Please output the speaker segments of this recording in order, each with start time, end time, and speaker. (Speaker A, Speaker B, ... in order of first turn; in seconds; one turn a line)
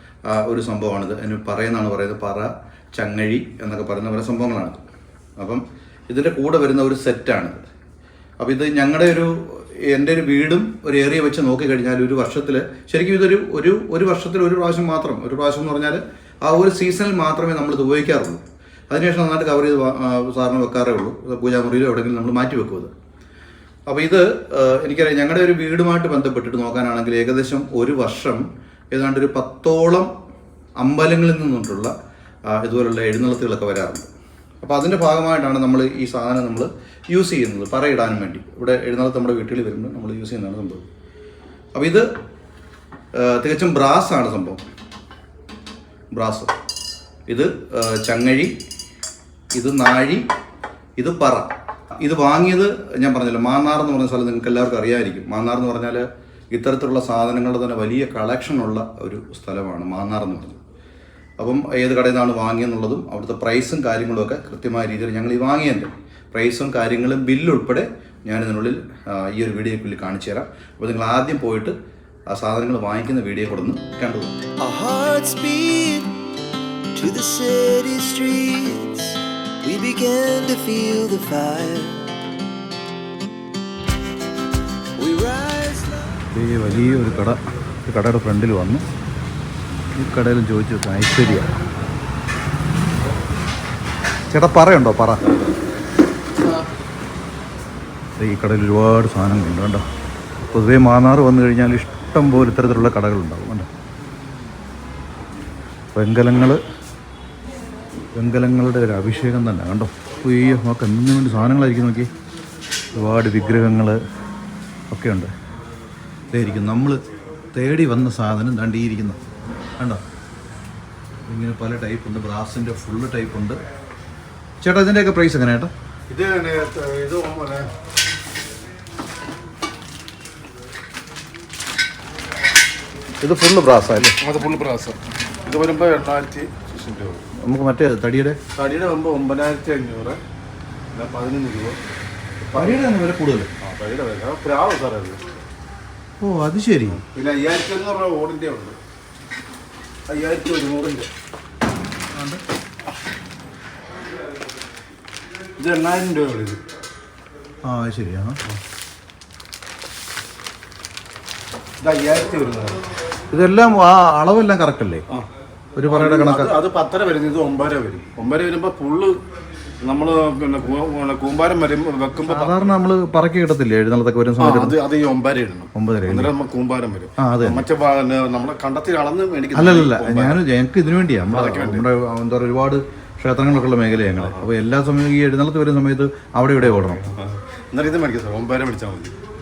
Speaker A: 0.3-4.8
Speaker A: 5.4-7.6
Speaker A: 8.4-22.9
Speaker A: 23.9-30.1
Speaker A: 30.8-31.9
Speaker A: 32.5-34.1
Speaker A: 34.6-40.9
Speaker A: 41.8-42.1
Speaker A: 43.1-44.6
Speaker A: 46.1-46.5
Speaker A: 47.3-48.5
Speaker A: 49.5-50.3
Speaker A: 51.0-60.6
Speaker A: 61.4-71.8
Speaker A: 72.3-74.4
Speaker B: 74.6-76.2
Speaker B: 77.0-82.1
Speaker B: 85.0-86.2
Speaker A: 86.3-88.8
Speaker A: 90.0-91.5
Speaker A: 94.3-95.2
Speaker A: 98.2-99.8
Speaker A: 100.5-103.7
Speaker A: 105.9-106.6
Speaker A: 108.1-112.1
Speaker A: 112.9-114.0
Speaker A: 114.9-115.3
Speaker A: 116.3-117.0
Speaker A: 117.5-119.2
Speaker A: 121.3-123.6
Speaker A: 124.6-125.7
Speaker C: 126.1-127.7
Speaker A: 133.2-134.2
Speaker C: 134.2-137.2
Speaker A: 137.4-138.4
Speaker C: 138.6-140.2
Speaker C: 140.9-141.8
Speaker A: 142.4-143.5
Speaker C: 142.6-142.8
Speaker C: 143.6-145.2
Speaker A: 146.2-147.0
Speaker C: 146.9-148.8
Speaker C: 150.1-151.1
Speaker A: 152.1-152.4
Speaker C: 155.6-156.6
Speaker A: 157.6-158.4
Speaker C: 161.8-162.8
Speaker A: 163.3-165.1
Speaker A: 165.8-166.5
Speaker C: 165.9-169.2
Speaker C: 169.8-172.6
Speaker A: 172.3-174.8
Speaker C: 174.4-180.4
Speaker A: 175.7-176.3
Speaker A: 177.2-177.7
Speaker A: 179.6-187.1
Speaker C: 181.3-181.9
Speaker C: 184.2-184.5
Speaker C: 186.6-189.1